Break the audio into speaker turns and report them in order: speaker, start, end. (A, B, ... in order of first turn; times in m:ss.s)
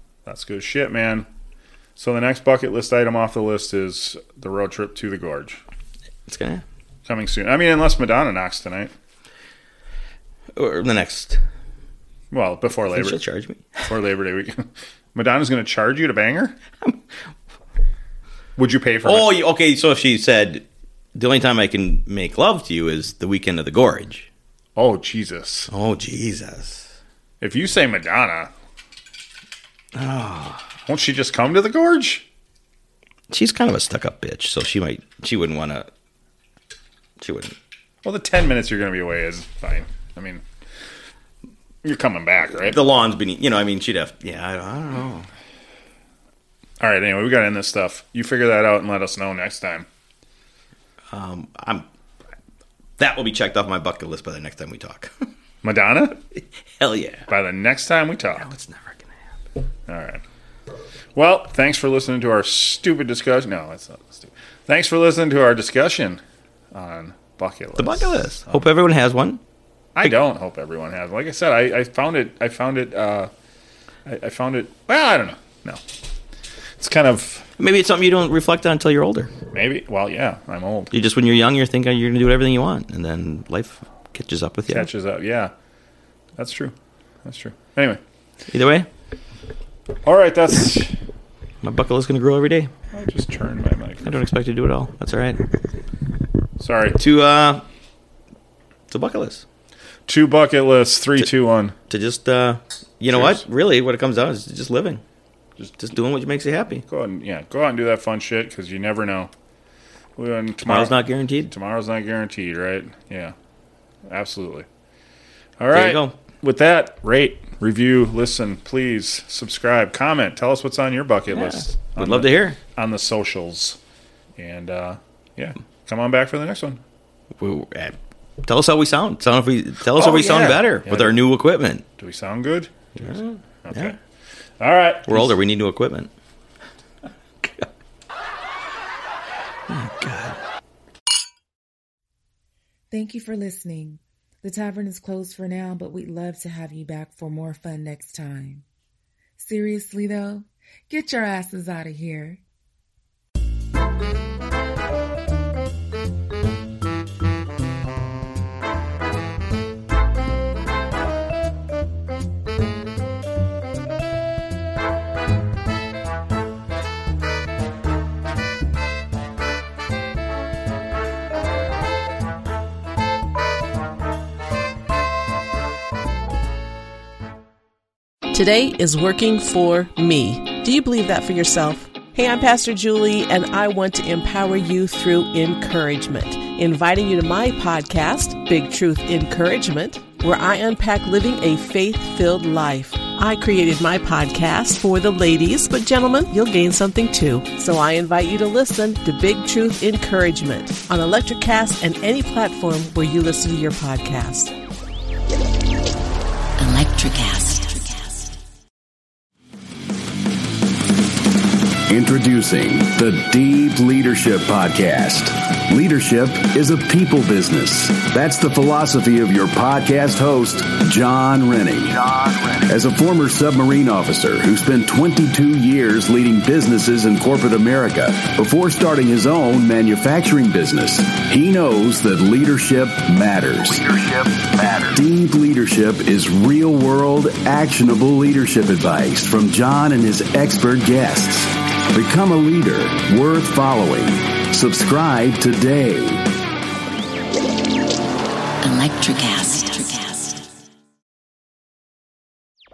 0:00.2-0:01.3 A
0:02.0-0:05.6 A
0:06.3-0:06.6 B
0:07.0-0:08.9 A
0:10.5-0:11.4 B
0:12.3-0:13.2 A
0:12.9-0:13.8 B
0:13.8-0:16.6 A
0:18.6-0:19.3 A
0:19.0-0:24.3 B
0:24.8-0:25.7 A
0:25.7-0:26.9 B
0:27.4-0:28.5 A
0:29.9-0:30.6 B
0:30.9-0:32.2 A
0:33.3-0:35.9 B
0:37.2-0:37.6 B
0:38.0-0:40.4 A
0:41.8-0:42.8 A
0:42.5-0:45.3 B
0:46.8-0:49.8 A
0:51.1-0:51.9 B
0:53.0-0:55.3 B
0:55.6-0:56.2 A
0:56.3-0:57.3 B
0:57.3-0:58.5 A
0:58.4-0:59.1 B
0:59.9-1:00.2 A
1:01.1-1:06.2 A
1:06.7-1:08.7 A
1:07.8-1:09.4 B
1:10.0-1:13.3 A
1:14.0-1:15.8 A
1:16.8-1:17.5 A
1:17.6-1:19.3 B
1:19.5-1:20.9 A
1:20.9-1:24.9 B
1:24.7-1:25.5 A
1:26.4-1:28.0 A
1:28.5-1:28.9 B
1:30.0-1:30.9 A
1:31.6-1:32.7 B
1:32.9-1:34.2 A
1:34.0-1:35.4 B
1:36.6-1:37.0 A
1:37.0-1:37.6 B
1:38.9-1:39.4 B
1:40.1-1:41.8 A
1:41.9-1:45.0 B
1:43.1-1:43.4 A
1:45.8-1:46.8 B
1:46.9-1:49.3 A
1:50.2-1:53.3 A
1:50.6-1:51.5 B
1:54.1-1:54.6 A
1:55.6-2:03.8 A
1:55.7-1:56.1 B
2:01.3-2:02.6 B
2:04.4-2:06.8 A
2:07.4-2:11.8 B
2:09.9-2:11.2 A
2:12.0-2:14.0 A
2:13.0-2:13.9 B
2:14.6-2:15.3 A
2:15.1-2:16.1 B
2:17.4-2:17.7 B
2:19.7-2:20.4 B
2:22.9-2:28.6 C
2:29.4-2:32.4 C
2:58.3-3:24.5 D
3:26.6-3:28.2 D
3:31.9-4:06.2 E
4:08.6-4:10.4 D